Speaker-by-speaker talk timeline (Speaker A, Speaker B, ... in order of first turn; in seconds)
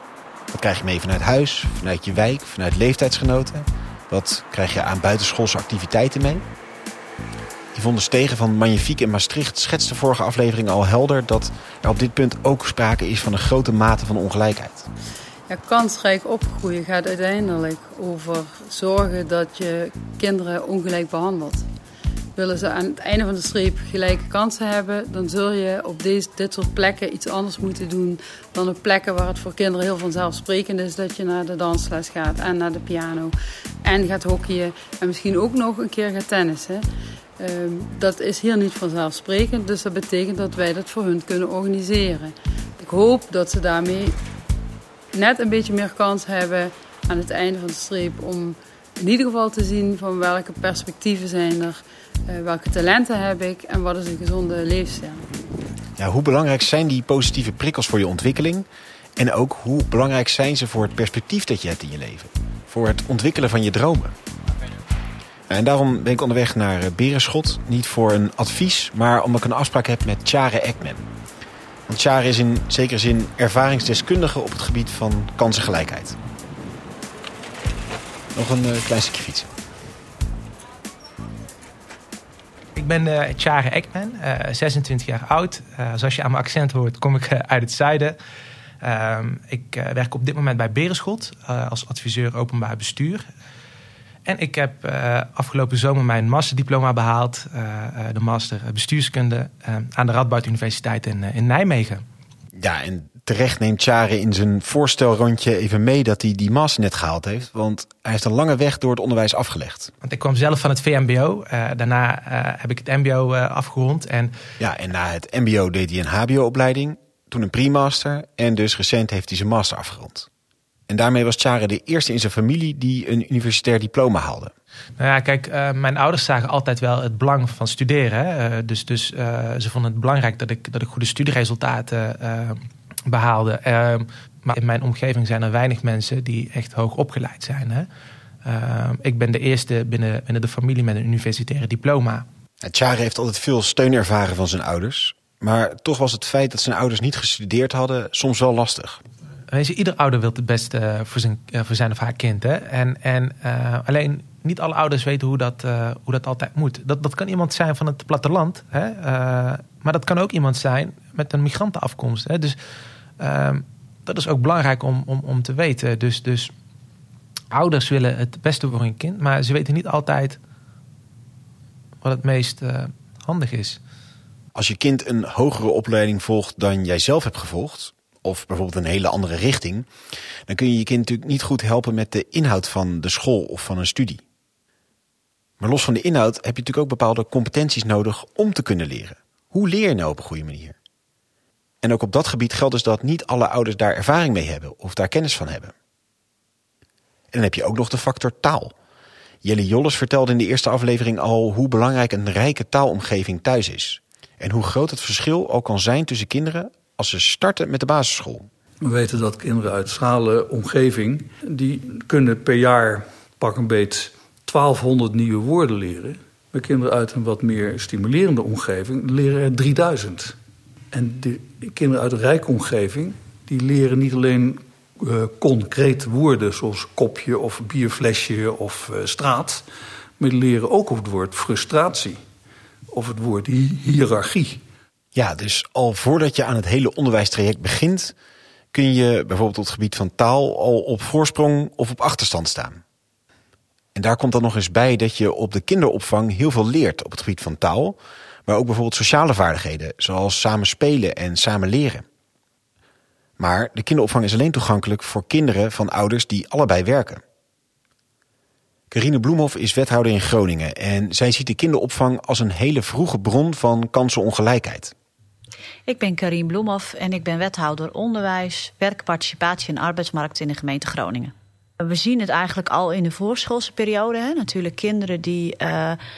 Speaker A: 0.5-6.5, 7.7-14.9, 56.0-64.1, 65.5-71.0, 71.9-76.2, 78.3-79.5, 102.5-109.9, 114.6-120.3, 120.9-124.5, 142.6-149.0, 174.5-179.9, 180.5-184.2, 185.6-190.8, 191.8-195.7, 197.3-198.7, 199.4-208.5, 235.1-238.1, 238.7-242.8, 243.9-252.0, 253.4-257.2, 258.9-264.9
Speaker B: 15.5-21.7, 22.4-36.8, 37.4-44.2, 45.1-55.2
Speaker C: 82.8-88.2, 88.8-93.2, 94.2-102.0, 110.0-114.3, 125.0-137.9, 138.4-142.2, 149.5-162.6, 163.2-166.5, 167.5-170.4, 172.0-173.8
Speaker D: 208.8-220.3, 220.9-229.6, 230.2-232.2, 232.9-234.6
Speaker E: 265.9-276.0